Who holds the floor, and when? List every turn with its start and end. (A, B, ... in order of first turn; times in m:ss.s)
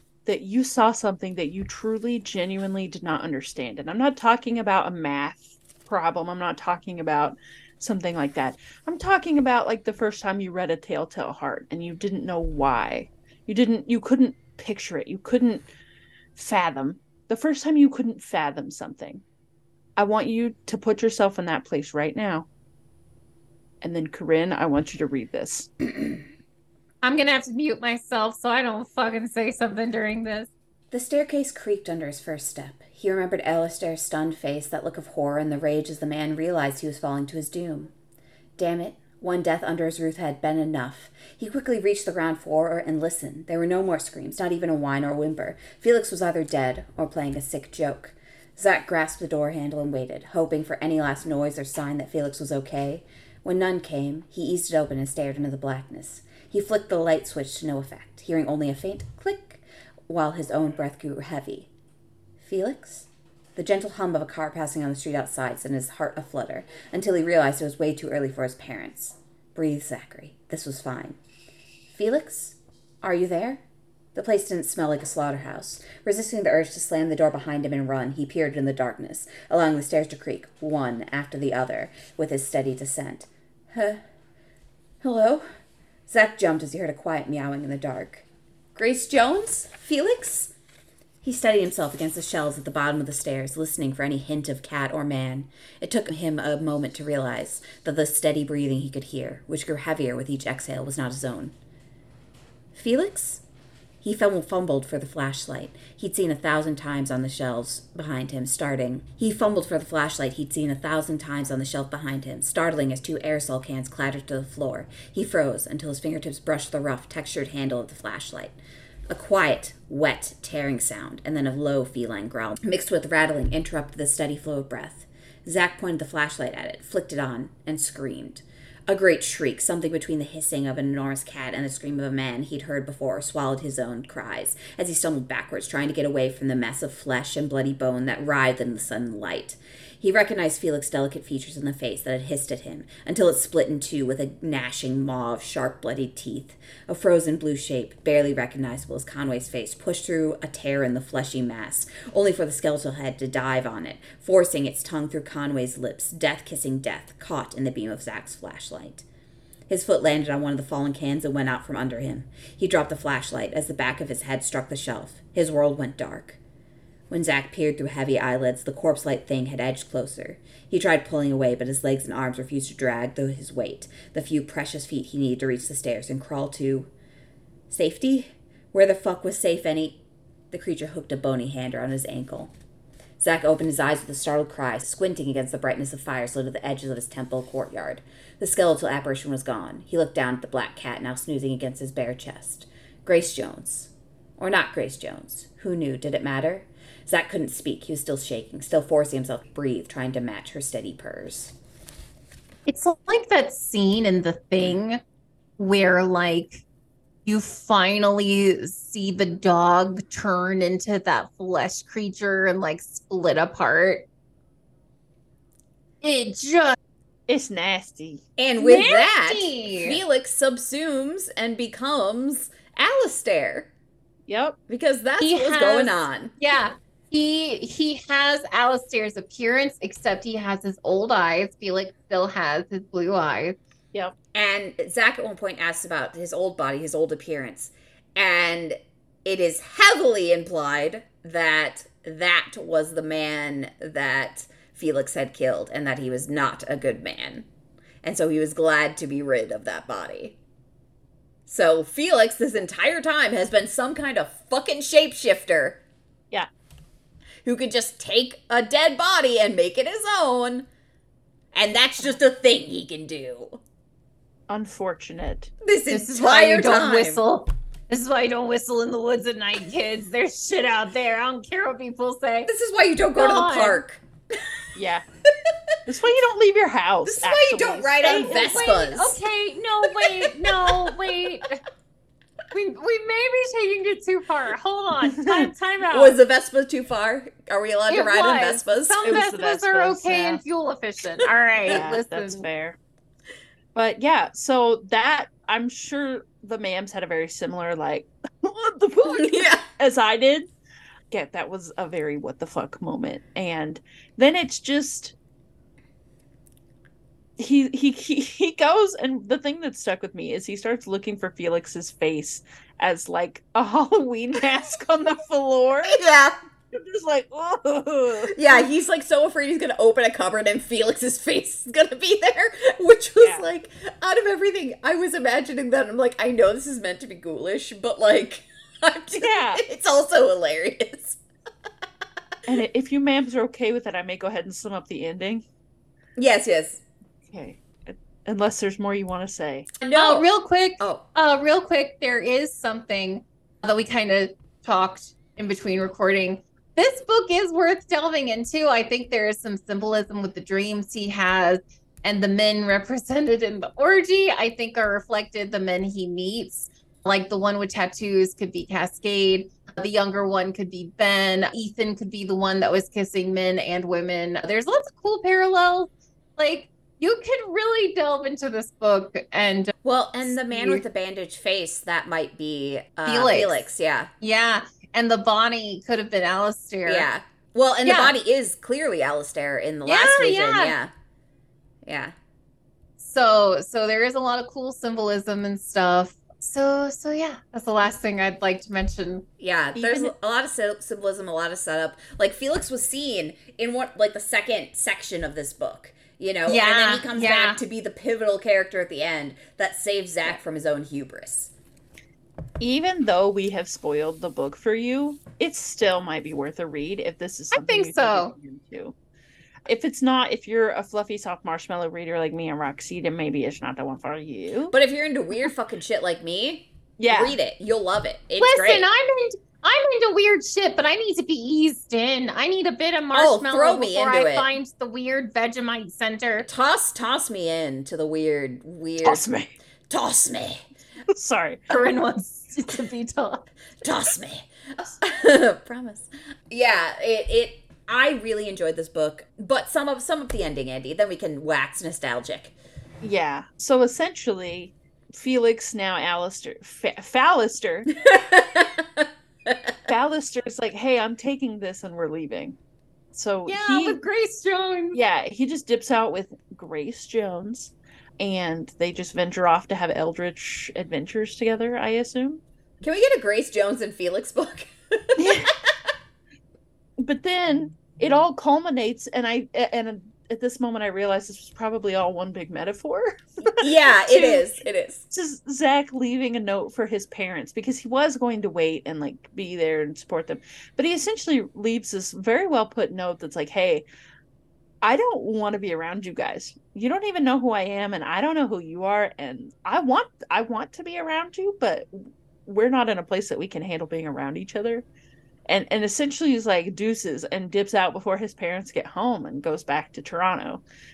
0:00.3-0:15.7 A
0:16.4-0:19.2 A
0:20.0-0:22.5 A
0:23.8-0:25.7 A
0:27.0-0:30.5 B
0:30.9-0:37.9 C
0:38.6-1:01.7 C
1:02.4-1:11.2 C
1:11.9-1:13.6 C
1:14.2-1:24.0 C
1:25.0-1:25.4 C
1:26.1-1:30.5 C
1:31.2-1:41.6 C
1:42.7-1:43.4 C
1:44.0-1:58.6 C
1:59.1-2:39.0 C
2:39.7-2:46.4 C
2:47.1-2:56.9 C
2:57.7-3:00.0 C
3:00.5-3:02.5 C
3:03.2-3:21.5 C
3:22.7-3:25.0 B
3:25.6-3:26.6 B
3:27.3-3:34.1 B
3:36.0-3:36.8 B
3:37.3-3:38.2 A
3:38.4-3:43.7 C
3:38.6-3:40.0 B
3:44.3-3:44.6 A
3:44.7-3:46.4 C
3:45.2-3:53.6 B
3:54.4-4:07.5 C
4:08.0-4:10.4 C
4:11.5-4:15.8 C
4:17.4-4:20.7 C
4:21.5-4:23.6 C
4:24.5-4:25.5 A
4:25.6-4:27.2 C
4:25.9-4:32.5 B
4:32.5-4:34.0 C
4:33.2-4:33.8 B
4:34.8-4:35.0 A
4:35.9-4:38.8 A
4:37.1-4:39.2 C
4:38.0-4:41.6 B
4:42.5-4:46.2 B
4:45.1-4:45.5 A
4:45.9-4:49.0 C
4:47.9-4:52.5 B
4:49.0-4:50.4 A
4:51.7-4:52.8 A
4:53.8-5:00.5 A
4:59.0-4:59.6 C
5:01.1-5:05.2 A
5:07.4-5:16.0 A
5:15.9-5:16.4 C
5:16.7-5:18.6 A
5:18.3-5:31.2 C
5:29.2-5:29.6 A
5:32.5-5:35.4 A
5:36.2-5:36.8 C
5:37.3-5:39.7 A
5:39.8-5:40.3 C
5:39.9-6:09.7 B
6:09.8-6:14.1 C
6:10.3-6:10.8 B
6:13.1-6:13.6 B
6:14.2-6:17.1 B
6:16.9-6:20.9 C
6:17.8-6:18.2 B
6:19.8-6:20.8 B
6:21.8-6:22.1 C
6:23.0-6:29.3 B
6:29.4-6:41.5 C
6:29.8-6:30.1 A
6:36.5-6:37.6 B
6:42.6-6:49.0 A
6:47.5-6:48.3 B
6:49.7-6:54.7 A
6:54.7-6:58.9 C
6:57.0-6:57.4 A
6:58.4-7:06.5 B
7:03.1-7:04.5 C
7:06.5-7:09.2 C
7:09.0-7:09.5 A
7:09.9-7:10.7 C
7:11.1-7:11.6 A
7:11.7-7:13.5 B
7:13.8-7:14.5 C
7:15.0-7:22.5 C
7:23.0-7:27.9 A
7:28.0-7:29.5 C
7:29.9-7:32.6 A
7:33.1-7:34.0 A
7:33.5-7:35.0 B
7:34.9-7:42.4 A
7:42.8-7:45.2 C
7:45.2-7:45.5 A
7:47.0-7:54.5 A
7:53.4-7:55.1 C
7:55.1-8:03.9 A
8:04.8-8:14.8 A
8:15.5-8:20.6 A